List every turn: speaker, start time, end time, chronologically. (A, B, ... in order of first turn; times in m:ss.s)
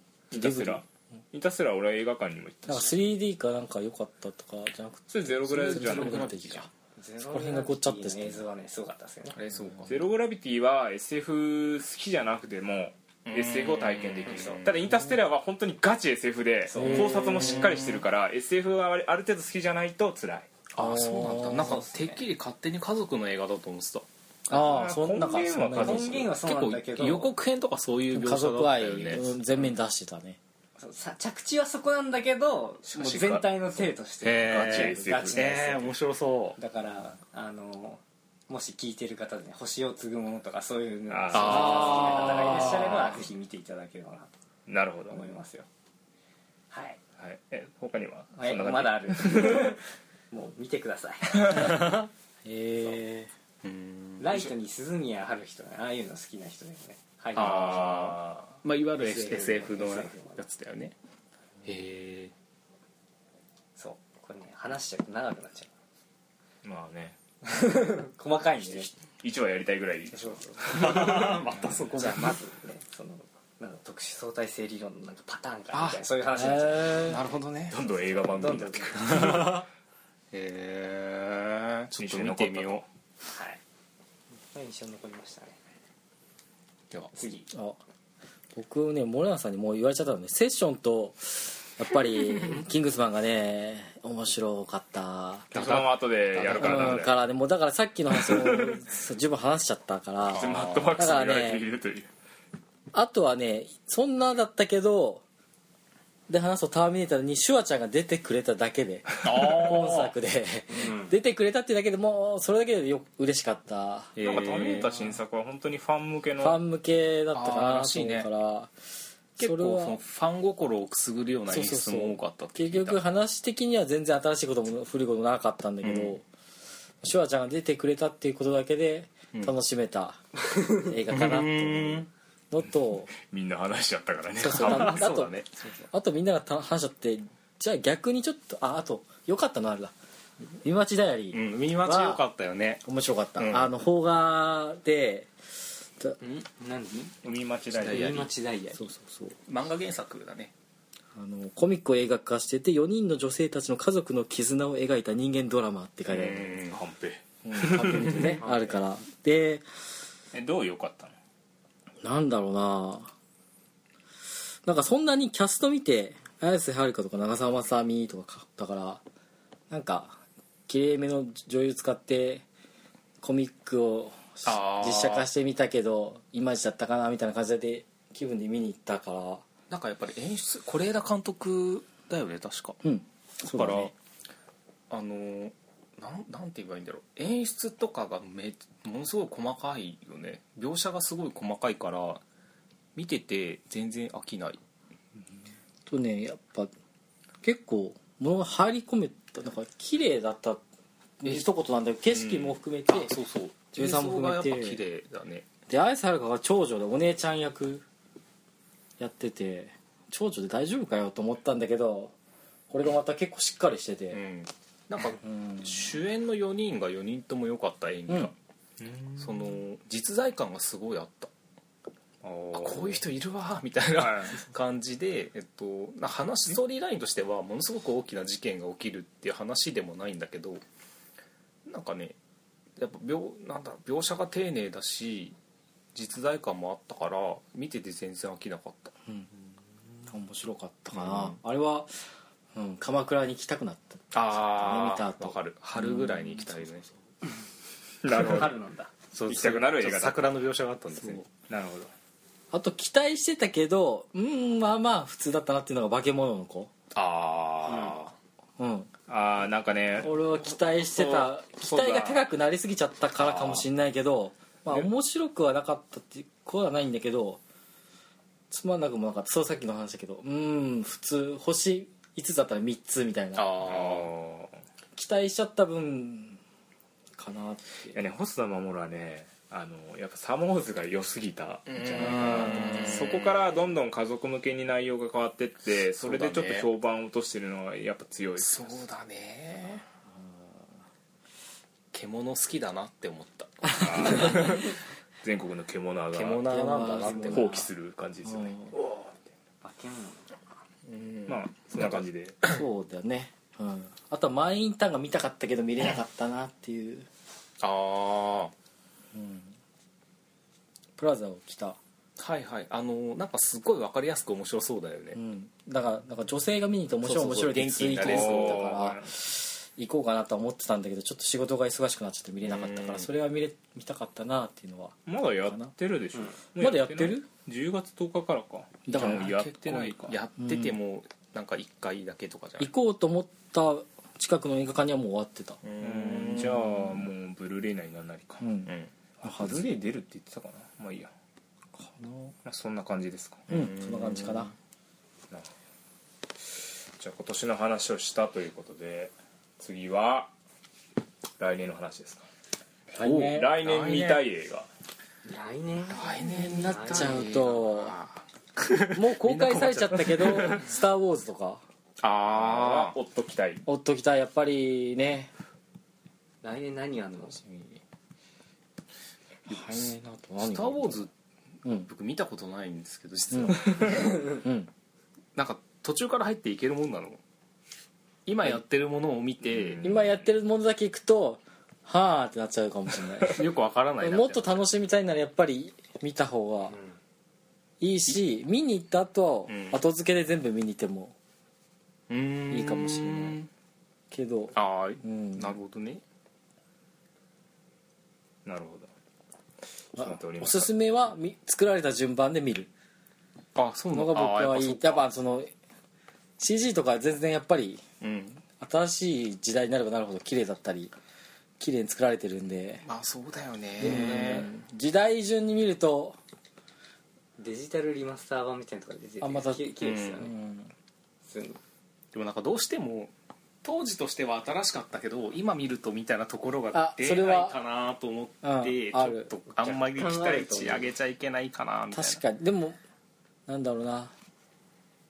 0:00.3-0:03.0 A
0:00.3-0:00.8 B
0:02.7-0:06.7 B
0:05.1-0:06.3 A
0:05.5-0:06.7 C
0:07.0-0:09.4 D
0:07.3-0:08.4 B
0:09.3-0:10.1 C
0:09.8-0:20.5 A
0:13.2-0:14.9 C
0:14.2-0:14.6 D
0:16.7-0:17.2 D
0:16.8-0:17.6 B
0:16.9-0:18.0 C
0:20.7-0:24.1 C
0:20.8-0:21.8 B
0:21.5-0:22.2 D
0:24.5-0:26.2 B
0:24.5-0:26.3 A
0:25.8-0:27.3 D
0:26.4-0:29.4 C
0:28.1-0:30.4 B
0:30.8-0:35.9 D
0:32.9-0:33.4 A
0:33.1-0:33.4 C
0:34.2-0:36.6 C
0:34.3-0:35.5 A
0:36.6-0:44.3 D
0:41.1-0:43.0 A
0:41.3-0:43.2 C
0:41.5-0:42.2 B
0:44.7-0:45.2 A
0:45.1-0:45.6 D
0:46.7-0:47.0 D
0:47.2-0:49.8 A
0:48.4-0:52.0 D
0:51.5-0:51.8 A
0:51.6-0:51.9 C
0:52.4-0:53.3 B
0:53.6-0:54.5 C
0:54.2-0:58.1 D
0:57.3-1:00.9 C
0:57.3-0:58.6 A
0:59.0-1:00.4 D
1:01.6-1:02.3 C
1:03.8-1:05.7 D
1:06.6-1:07.2 A
1:07.4-1:08.9 D
1:08.6-1:11.4 A
1:10.1-1:11.3 D
1:10.7-1:12.4 C
1:11.9-1:17.2 D
1:15.7-1:16.0 C
1:16.4-1:17.2 B
1:17.0-1:17.8 C
1:17.7-1:19.6 A
1:18.2-1:19.5 D
1:19.0-1:19.7 C
1:20.3-1:22.8 C
1:22.0-1:22.8 A
1:23.3-1:23.6 D
1:24.5-1:25.6 D
1:27.1-1:27.5 D
1:27.5-1:27.8 B
1:28.5-1:35.6 B
1:35.5-1:37.1 C
1:35.5-1:37.2 A
1:36.5-1:41.6 B
1:38.2-1:38.8 A
1:40.2-1:41.0 C
1:40.3-1:42.1 A
1:42.9-1:45.2 B
1:46.3-1:54.2 B
1:49.2-1:50.1 C
1:50.7-1:51.1 D
1:54.2-1:55.0 C
1:54.2-1:56.6 A
1:56.4-1:58.7 B
1:57.3-1:58.3 C
1:59.4-2:00.0 B
1:59.4-2:03.0 C
2:01.5-2:06.2 B
2:05.8-2:06.2 C
2:07.0-2:10.2 B
2:10.8-2:13.1 B
2:11.1-2:12.1 C
2:13.2-2:15.1 A
2:14.4-2:15.3 B
2:14.5-2:15.5 C
2:15.9-2:19.9 B
2:20.6-2:22.2 B
2:21.3-2:22.8 C
2:22.8-2:25.3 B
2:23.4-2:23.7 C
2:26.2-2:27.1 D
2:27.2-2:28.3 A
2:27.7-2:28.3 C
2:27.8-2:28.8 D
2:28.8-2:29.4 B
2:29.5-2:30.5 C
2:31.1-2:36.5 B
2:36.1-2:36.8 C
2:36.7-2:38.3 A
2:37.4-2:39.6 B
2:38.0-2:38.4 C
2:38.3-2:38.8 D
2:40.3-2:41.2 A
2:42.0-2:43.1 B
2:44.6-2:49.0 B
2:49.7-2:52.4 B
2:53.2-2:59.4 B
2:54.4-2:55.3 C
2:59.7-3:02.8 C
3:02.8-3:03.9 B
3:03.5-3:03.9 C
3:04.9-3:12.2 C
3:12.9-3:14.6 C
3:15.8-3:16.7 B
3:17.4-3:20.6 B
3:21.2-3:23.1 B
3:22.1-3:25.5 C
3:23.7-3:24.8 B
3:25.7-3:27.8 B
3:29.0-3:32.1 B
3:32.7-3:34.2 B
3:34.1-3:38.3 C
3:35.2-3:35.9 B
3:38.8-3:39.6 A
3:39.2-3:41.3 C
3:42.2-3:43.0 A
3:42.5-3:50.6 C
3:43.9-3:44.4 A
3:51.6-3:52.2 C
3:52.8-3:55.4 C
3:55.9-3:58.9 C
4:00.0-4:02.0 B
4:00.9-4:01.4 C
4:02.5-4:06.9 B
4:04.1-4:06.8 C
4:08.0-4:08.5 A
4:08.1-4:08.9 D
4:09.1-4:11.2 C
4:09.2-4:10.3 A
4:11.4-4:11.9 A
4:12.5-4:16.7 B
4:16.9-4:18.1 C
4:17.7-4:17.9 D
4:18.6-4:18.9 B
4:19.1-4:22.3 A
4:20.0-4:27.4 B
4:23.2-4:23.6 C
4:28.5-4:33.5 B
4:33.3-4:34.1 C
4:33.6-4:34.6 A
4:34.9-4:36.4 B
4:37.2-4:38.0 B
4:37.9-4:48.8 A
4:41.7-4:43.5 C
4:42.1-4:43.0 B
4:46.0-4:46.7 C
4:48.4-4:49.8 C
4:51.9-4:54.6 C
4:53.7-4:56.5 A
4:56.1-4:57.6 C
4:56.4-4:57.6 B
4:57.1-4:59.2 A
4:58.2-4:58.7 B
4:59.6-5:00.6 D
5:00.8-5:02.5 C
5:01.3-5:02.4 A
5:02.4-5:07.1 B
5:07.6-5:08.5 C
5:09.1-5:09.5 B
5:11.0-5:11.8 B
5:12.2-5:15.2 C
5:15.1-5:25.7 B
5:17.0-5:18.8 C
5:18.0-5:19.1 A
5:22.4-5:23.1 C
5:25.0-5:30.2 A
5:26.6-5:27.3 B
5:28.9-5:29.3 B
5:28.9-5:32.7 C
5:30.4-5:30.8 B
5:32.6-5:35.6 B
5:35.6-5:36.9 C
5:35.8-5:38.4 A
5:36.5-5:36.9 B
5:38.4-5:39.7 B
5:38.6-5:38.9 C
5:39.2-5:41.1 A
5:41.8-5:42.3 B
5:42.4-5:43.4 A
5:43.5-5:44.5 C
5:43.5-5:44.5 B
5:47.0-5:50.3 A
5:51.4-5:52.2 A
5:52.9-5:53.5 B
5:53.0-5:54.3 C
5:53.3-5:54.7 A
5:55.2-5:57.3 D
5:55.9-6:00.7 C
5:56.3-5:57.9 B
5:58.9-6:01.6 B
6:02.0-6:03.0 C
6:02.3-6:03.6 A
6:03.6-6:05.3 B
6:06.4-6:07.4 D
6:07.4-6:07.7 B
6:09.5-6:11.1 B
6:09.5-6:11.1 C
6:11.6-6:11.9 B
6:11.6-6:14.2 C
6:13.3-6:14.7 B
6:15.3-6:17.2 C
6:18.2-6:19.8 C
6:19.4-6:20.2 A
6:19.8-6:23.4 B
6:23.3-6:24.6 C
6:24.0-6:26.8 B
6:26.7-6:27.0 D
6:27.8-6:31.1 B
6:29.5-6:29.8 C
6:32.1-6:33.5 C
6:32.5-6:33.4 B
6:34.1-6:35.5 B
6:34.5-6:36.0 C
6:38.4-6:38.9 A
6:40.0-6:40.7 A
6:40.0-6:42.7 B
6:43.5-6:45.1 C
6:43.9-6:45.5 B
6:46.4-6:47.8 B
6:48.0-6:48.4 C
6:48.6-6:50.9 B
6:51.6-6:52.8 B
6:52.8-6:54.5 C
6:53.8-6:56.2 B
6:57.4-7:00.3 D
6:59.2-7:00.7 B
6:59.8-7:00.2 C
7:01.2-7:01.6 D
7:02.1-7:03.1 C
7:03.6-7:12.2 C
7:06.7-7:07.6 B
7:08.4-7:09.3 B
7:09.6-7:10.9 D
7:11.9-7:12.8 B
7:13.5-7:14.1 B